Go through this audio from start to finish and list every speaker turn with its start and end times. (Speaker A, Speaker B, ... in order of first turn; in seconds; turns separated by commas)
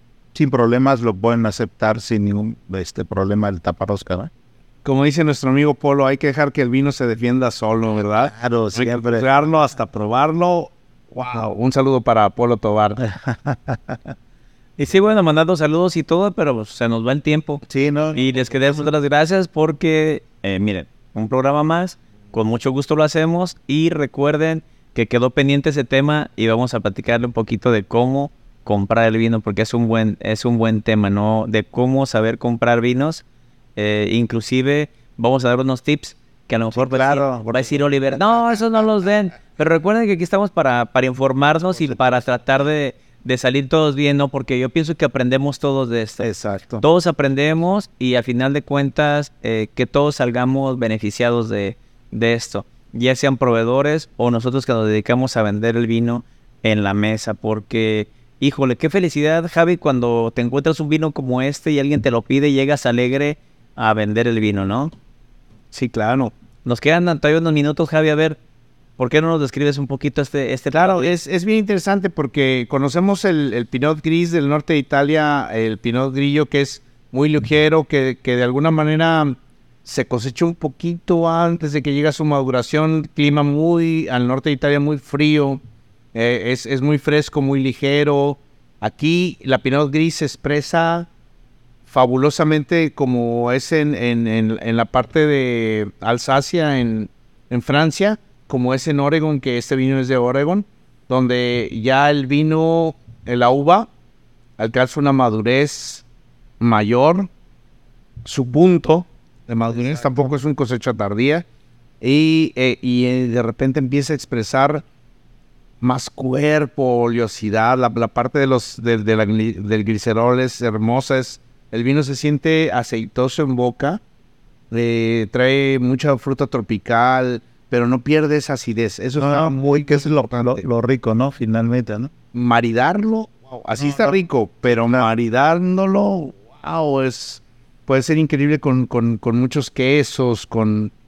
Speaker A: 0.3-4.3, Speaker B: 4.8-13.0, Speaker A: 8.2-9.3, Speaker A: 13.0-14.1, Speaker C: 14.8-17.6, Speaker A: 17.7-18.9, Speaker C: 18.1-33.2, Speaker C: 33.8-46.2, Speaker A: 36.7-38.6, Speaker A: 41.7-42.2, Speaker A: 46.2-46.8, Speaker C: 46.8-64.9, Speaker B: 65.7-66.3, Speaker C: 66.6-68.4, Speaker C: 69.0-71.1, Speaker B: 70.7-85.6, Speaker B: 86.1-91.1, Speaker B: 91.9-103.9, Speaker B: 104.6-106.0, Speaker B: 106.6-107.3, Speaker B: 108.2-111.4, Speaker B: 112.0-114.8, Speaker B: 115.8-124.0, Speaker B: 124.7-129.8, Speaker A: 129.2-132.1, Speaker B: 132.3-140.9, Speaker A: 133.8-134.2, Speaker A: 134.7-135.0